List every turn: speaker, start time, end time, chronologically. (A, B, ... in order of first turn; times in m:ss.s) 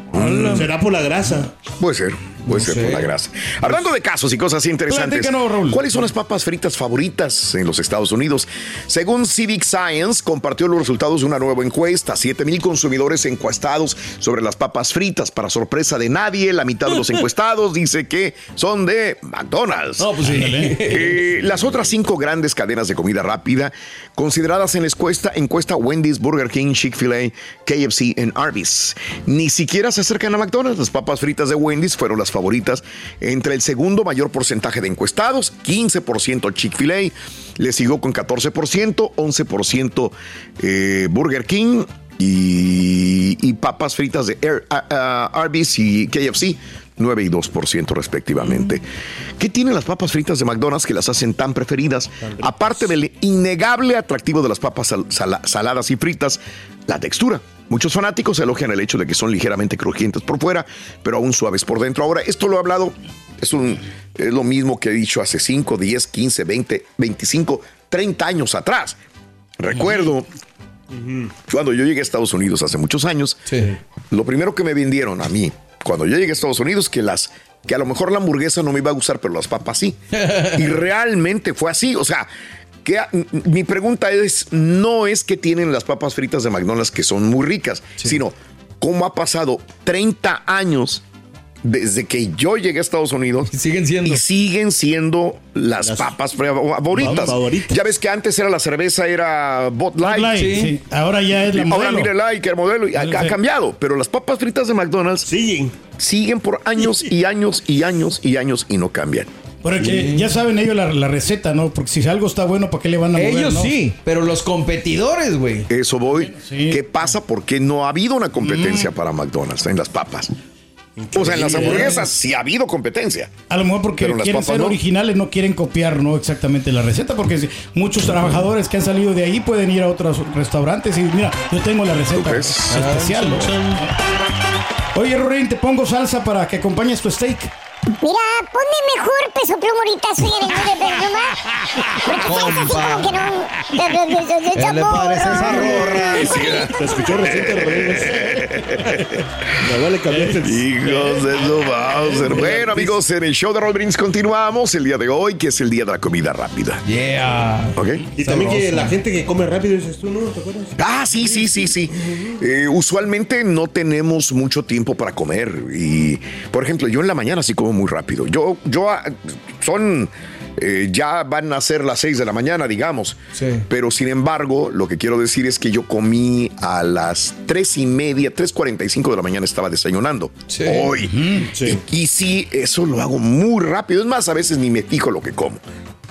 0:00.1-0:00.6 A
0:00.1-0:00.7 B
0:00.3-0:01.5 C
0:01.8-0:20.1 A
0:02.5-0:03.1 B
0:04.9-0:05.8 D
0:20.0-0:21.2 B
0:20.2-0:20.8 D
0:20.8-0:48.8 A
0:49.4-1:09.0 A
0:52.2-0:52.6 C
1:09.6-1:10.3 A
1:10.9-1:11.3 C
1:11.5-1:13.4 A
1:14.1-1:20.0 A
1:20.1-1:20.8 B
1:20.5-1:22.3 A
1:22.8-1:31.0 A
1:31.6-1:33.5 A
1:33.5-1:34.2 B
1:34.0-1:40.5 A
1:35.8-1:36.1 C
1:36.9-1:37.8 C
1:37.0-1:37.3 D
1:40.0-1:42.1 D
1:40.3-1:40.8 B
1:41.5-1:45.3 A
1:43.0-1:43.3 D
1:45.2-1:45.8 C
1:46.0-1:49.3 A
1:49.6-1:53.8 D
1:49.8-1:50.3 B
1:53.2-1:55.7 B
1:55.7-2:00.3 A
1:56.3-1:56.8 D
1:58.4-1:58.9 D
2:01.0-2:02.0 C
2:01.1-2:03.3 A
2:01.3-2:01.8 D
2:03.5-2:13.9 D
2:04.0-2:04.8 A
2:12.1-2:12.8 A
2:12.7-2:13.8 B
2:14.9-2:17.5 D
2:18.0-2:27.0 E
2:22.1-2:23.1 B
2:24.6-2:26.5 B
2:25.5-2:29.2 A
2:26.6-2:28.5 C
2:29.6-2:30.7 C
2:30.4-2:36.8 A
2:32.1-2:33.0 C
2:36.8-2:38.9 B
2:37.8-2:38.0 A
2:38.2-2:40.8 C
2:40.8-3:05.6 A
2:53.4-2:53.6 B
3:00.5-3:00.9 B
3:01.1-3:01.5 D
3:01.5-3:01.8 C